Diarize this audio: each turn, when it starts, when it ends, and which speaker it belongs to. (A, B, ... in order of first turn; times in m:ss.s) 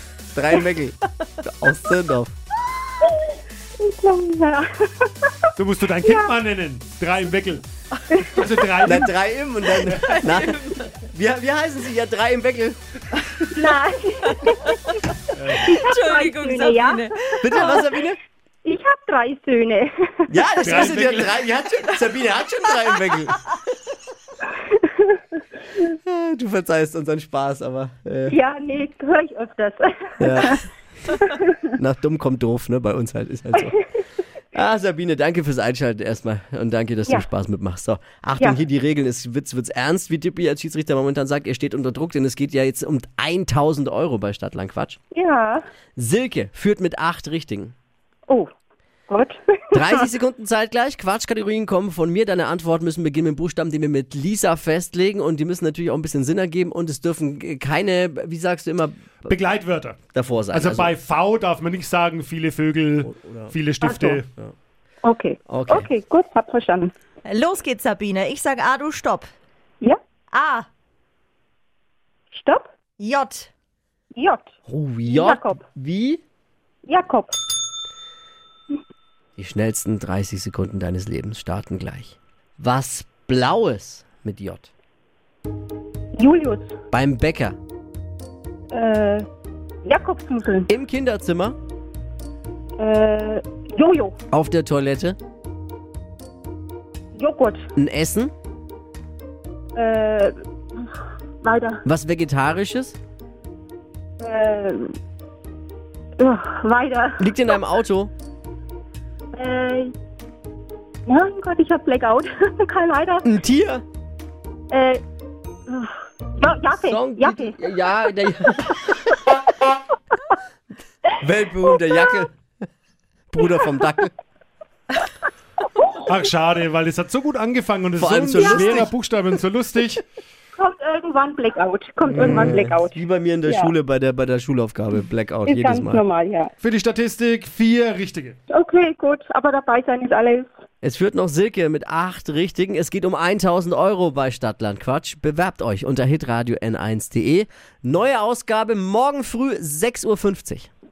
0:00.3-0:02.3 A
0:03.8-0:05.5 B
0:05.6-0:07.6 C
0:06.0-0:06.3 B
0:08.2-0:09.1 C
0:08.8-0:12.8 A
0:09.8-0:10.9 D
0:13.5-0:17.8 B
0:14.3-0:14.8 D
0:15.4-0:15.7 C
0:15.6-0:17.9 D
0:17.4-0:18.2 A
0:18.6-0:20.9 B
0:20.3-0:23.5 A
0:20.6-0:21.3 C
0:24.6-0:25.2 B
0:26.0-0:28.4 A
0:28.3-0:31.6 B
0:30.2-0:30.6 A
0:31.7-0:33.7 A
0:34.5-0:45.0 A
0:45.1-0:45.6 B
0:46.0-0:47.7 A
0:49.1-0:50.0 B
0:49.7-0:59.3 A
0:59.3-1:00.0 C
1:00.1-1:00.9 A
1:00.5-1:04.3 C
1:03.1-1:03.5 A
1:03.8-1:04.2 D
1:05.0-1:06.9 B
1:05.5-1:05.9 A
1:07.2-1:09.3 D
1:10.3-1:10.7 D
1:12.3-1:12.7 B
1:13.0-1:13.5 D
1:14.1-1:14.5 B
1:14.7-1:16.2 A
1:15.1-1:15.6 B
1:16.9-1:17.4 B
1:19.4-1:24.7 A
1:26.2-1:26.7 B
1:26.9-1:27.6 A
1:28.7-1:29.2 B
1:29.8-1:30.7 B
1:30.7-1:31.6 A
1:32.8-1:34.2 B
1:34.3-1:35.2 A
1:37.1-1:37.6 B
1:37.8-1:38.3 A
1:39.7-1:40.9 B
1:41.4-1:41.8 B
1:41.8-1:43.0 A
1:44.2-1:45.0 B
1:46.2-1:47.3 B
1:47.2-1:48.1 A
1:49.3-1:49.9 B
1:51.0-1:53.2 B
1:53.2-1:53.8 A
1:54.7-1:55.0 B
1:55.7-1:57.6 B
1:56.8-1:59.1 A
2:01.2-2:02.3 A
2:03.3-2:04.1 A
2:06.0-2:10.0 C
2:08.0-2:08.9 A
2:08.4-2:08.7 B
2:10.5-2:13.7 B
2:12.0-2:16.0 A
2:15.4-2:16.5 B
2:16.6-2:18.4 C
2:18.5-2:20.5 B
2:20.8-2:30.7 A